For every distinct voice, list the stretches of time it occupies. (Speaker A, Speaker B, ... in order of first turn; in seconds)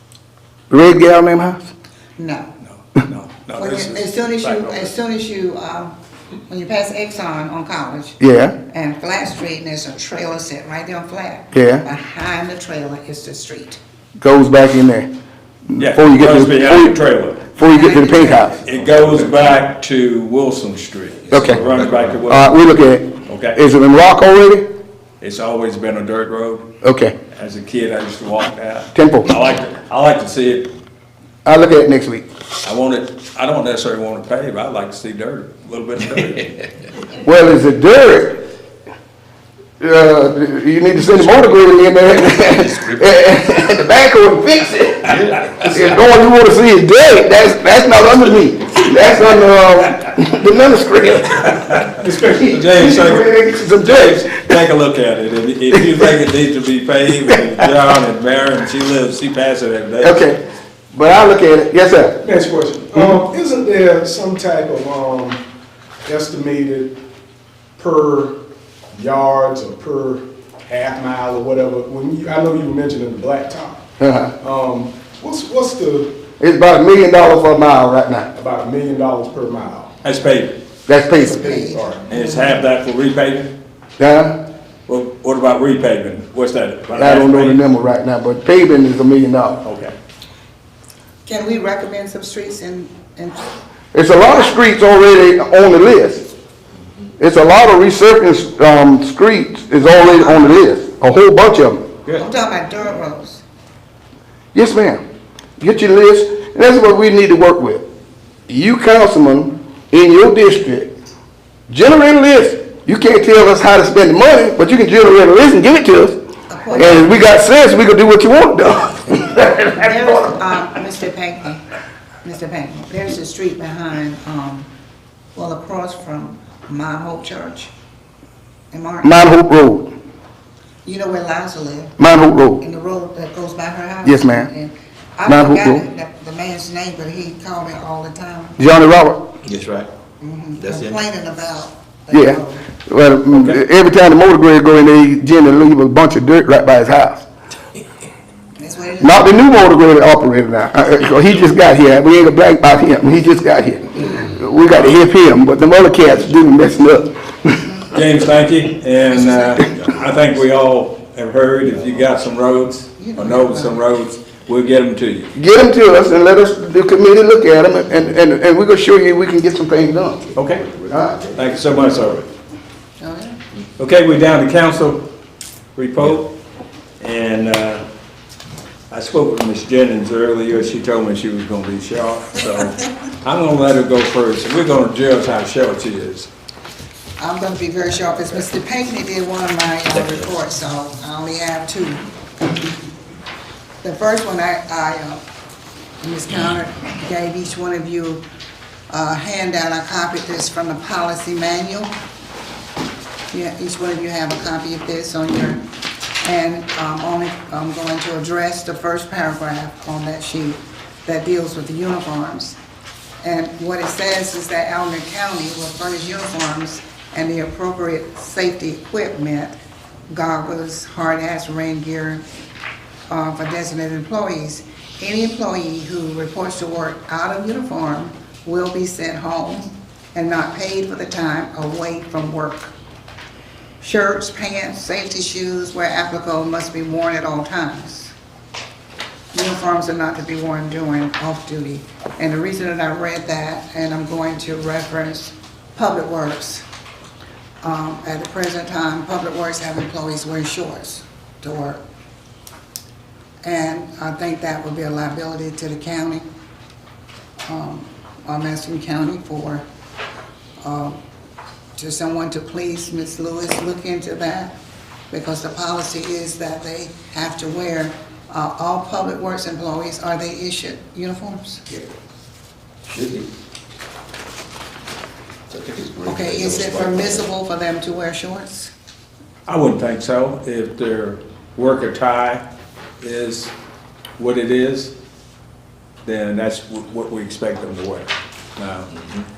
Speaker A: 0.7-1.6, 8.2-8.6, 11.5-11.8, 14.2-15.1, 15.7-17.0, 17.6-18.6, 21.3-21.6, 22.2-24.7, 26.8-27.1, 28.9-29.3, 31.4-32.2, 37.2-38.4, 39.8-51.6, 52.5-54.4, 60.0-62.2, 74.0-74.3, 76.4-78.3, 80.9-81.7, 84.0-84.4, 86.9-89.6, 93.9-96.3, 97.2-101.9, 104.5-105.0, 105.6-107.9, 108.5-110.9, 111.7-116.2, 116.7-120.3, 129.0-129.9, 132.0-132.6, 134.0-134.5, 135.2-135.8, 138.6-139.3, 142.1-147.2, 149.0-157.7, 165.3-170.2, 170.9-171.2
Speaker B: 2.2-2.5, 3.5-5.9, 6.5-13.8, 17.6-18.6, 81.2-82.6, 91.2-93.5, 94.3-94.5, 99.8-100.5, 102.1-103.4, 116.5-117.3, 119.5-121.6, 122.2-124.7, 125.3-127.7, 128.7-129.3, 130.8-131.9, 132.6-138.6, 140.2-142.7, 148.6-149.4, 159.2-159.8, 163.0-163.8, 173.0-173.4, 187.2-192.1, 193.8-195.2, 196.0-198.2, 198.9-201.9, 203.3-205.6, 206.2-212.6, 213.2-219.5, 220.1-222.2, 223.1-232.7, 233.8-238.1, 239.3-246.6, 247.6-251.8, 253.4-256.2, 257.5-259.6, 260.6-261.0, 261.8-264.5, 265.1-271.8, 276.0-278.7
Speaker C: 2.7-4.9, 15.8-17.4, 18.6-22.6, 23.3-23.6, 25.2-26.7, 27.3-30.7, 32.6-36.6, 51.6-60.3, 80.0-80.6, 82.1-83.5, 84.9-87.6, 89.6-89.9, 143.3-143.6, 154.7-155.0, 157.9-165.3, 170.3-170.7, 171.3-172.2, 173.8-175.1, 175.8-176.3, 177.0-177.8, 178.9-186.3, 279.5-282.5, 283.0-283.5, 284.2-284.9, 286.0-288.9
Speaker D: 42.1-43.2, 45.1-46.0, 139.4-139.9, 140.6-140.9, 170.4-172.1, 272.9-273.3, 275.5-277.1
Speaker E: 51.9-52.7, 62.2-65.4, 66.0-67.0, 67.8-68.4, 68.9-73.8, 74.4-76.2, 78.3-79.9, 81.5-82.0